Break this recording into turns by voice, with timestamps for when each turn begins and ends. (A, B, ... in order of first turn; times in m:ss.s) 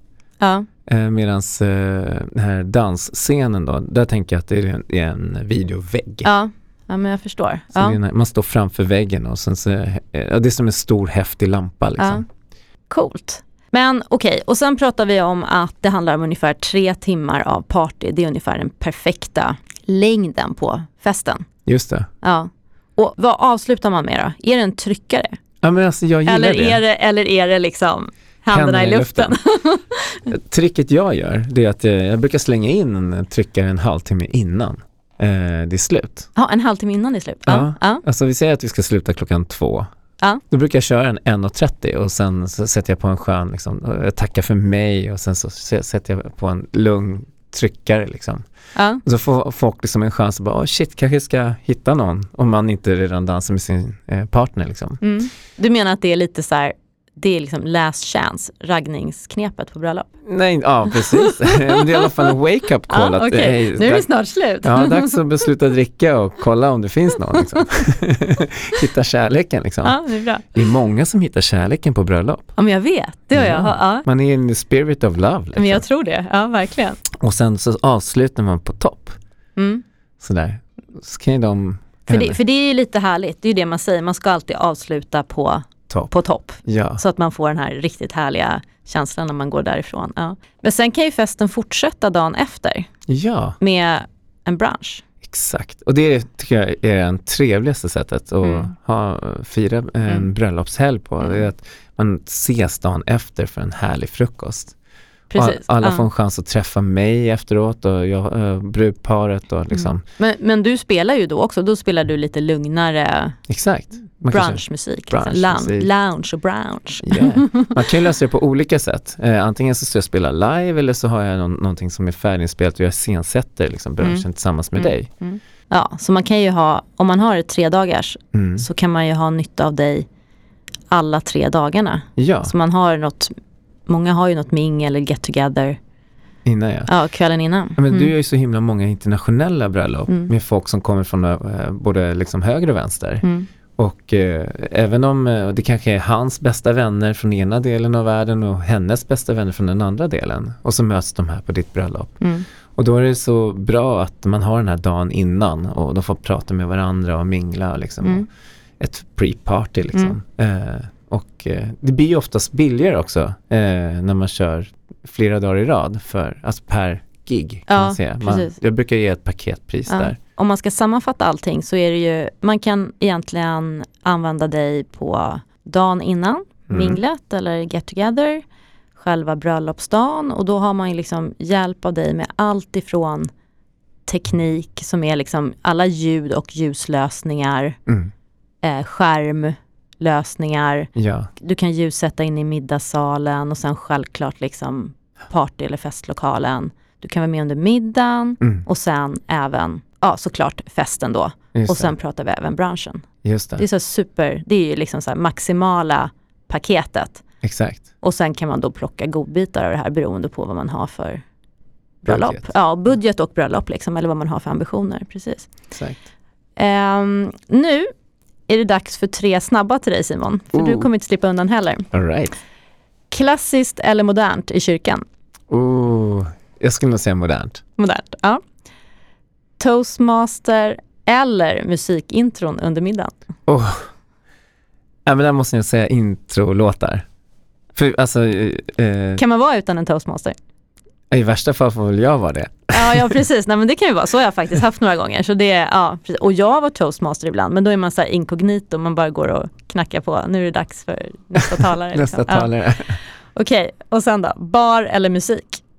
0:00.4-0:00.7 A
0:00.9-0:06.3 B
0:06.2-0:08.0 A
0:07.7-0:12.2 B
0:12.0-0:12.2 A
0:12.9-0:21.5 A
0:21.6-0:22.1 B
0:22.2-0:25.4 A
0:25.6-0:26.8 B
0:26.2-0:30.2 A
0:28.5-0:29.4 B
0:30.3-0:36.3 B
0:36.3-0:38.0 A
0:37.5-0:39.9 B
0:40.5-0:48.4 B
0:48.7-0:49.0 A
0:49.0-0:55.0 B
0:55.0-1:00.1 A
1:00.2-1:04.1 B
1:00.9-1:02.1 A
1:02.9-1:05.2 A
1:04.6-1:10.0 B
1:07.6-1:07.8 A
1:09.8-1:10.5 A
1:10.5-1:12.5 B
1:12.6-1:14.0 A
1:13.3-1:15.8 B
1:15.6-1:17.0 A
1:17.1-1:19.2 B
1:19.6-1:19.8 A
1:20.2-1:22.4 B
1:22.1-1:32.9 A
1:26.6-1:27.0 B
1:33.1-1:33.6 B
1:33.6-1:35.0 A
1:35.2-1:44.7 B
1:38.4-1:38.7 A
1:41.2-1:41.4 A
1:45.3-1:46.0 A
1:45.3-1:50.0 B
1:49.7-1:53.4 A
1:53.5-1:55.9 B
1:54.3-1:57.7 A
1:57.0-2:05.1 B
2:04.8-2:10.0 A
2:08.3-2:08.6 B
2:10.9-2:13.3 A
2:12.2-2:12.5 B
2:13.9-2:15.8 A
2:16.4-2:16.9 B
2:16.9-2:18.1 A
2:17.8-2:23.2 B
2:23.2-2:23.5 A
2:23.8-2:32.2 B
2:32.2-2:32.4 A
2:32.8-2:38.3 B
2:38.8-2:50.2 B
2:47.7-2:48.6 A
2:49.9-2:58.4 A
2:56.7-2:57.0 B
2:59.0-3:03.3 A
3:04.1-3:07.8 A
3:07.9-3:08.1 B
3:08.6-3:23.0 A
3:10.9-3:11.3 B
3:21.5-3:21.9 B
3:23.2-3:23.6 B
3:23.6-3:27.2 A
3:27.4-3:27.8 B
3:28.0-3:31.2 A
3:32.0-3:32.5 B
3:32.0-3:35.5 A
3:35.7-3:36.0 B
3:36.6-3:37.9 A
3:38.5-3:41.9 A
3:40.5-3:40.9 B
3:41.9-3:42.3 B
3:43.1-3:45.0 A
3:45.5-3:47.6 B
3:47.8-3:48.4 A
3:49.6-3:53.1 A
3:53.5-3:53.8 B
3:55.0-3:57.0 B
3:57.7-3:59.2 B
3:59.2-4:00.4 A
4:01.1-4:03.1 B
4:02.7-4:12.5 A
4:11.9-4:13.0 B
4:13.3-4:15.6 A